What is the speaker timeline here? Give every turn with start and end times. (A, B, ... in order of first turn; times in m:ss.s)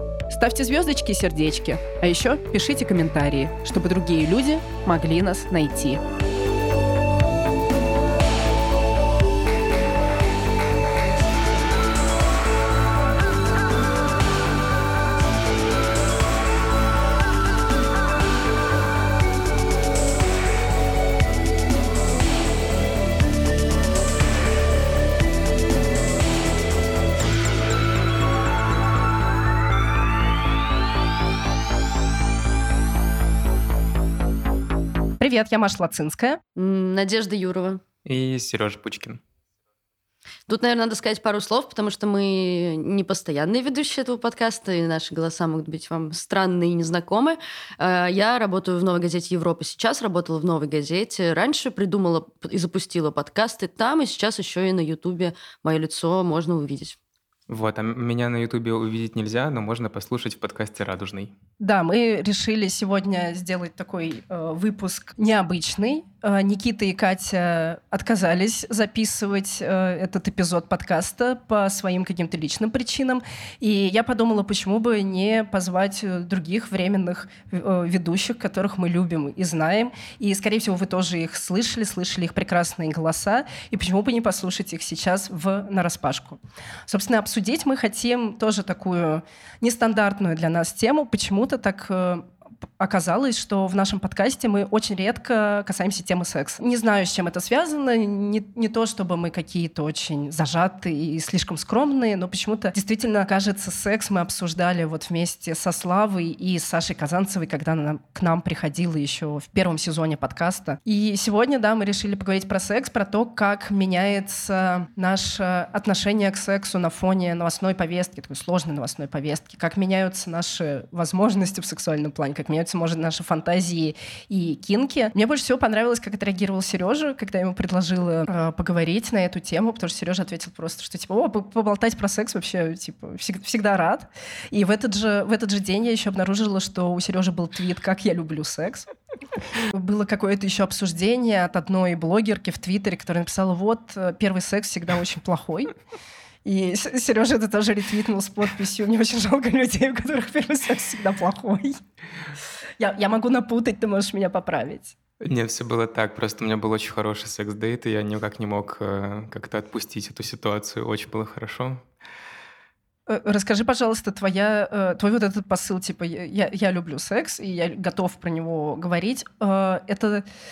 0:00.3-0:06.0 A
0:35.2-0:36.4 A
0:36.6-0:37.8 B
0:38.0-0:39.2 C
0:40.5-0:57.0 B
0:57.5-1:01.3 C
1:01.6-1:32.2 A
1:32.8-2:18.9 A
2:19.7-2:25.7 A
2:26.4-2:31.8 A
2:32.8-2:34.9 A
2:35.2-2:41.8 C
2:43.1-2:50.2 A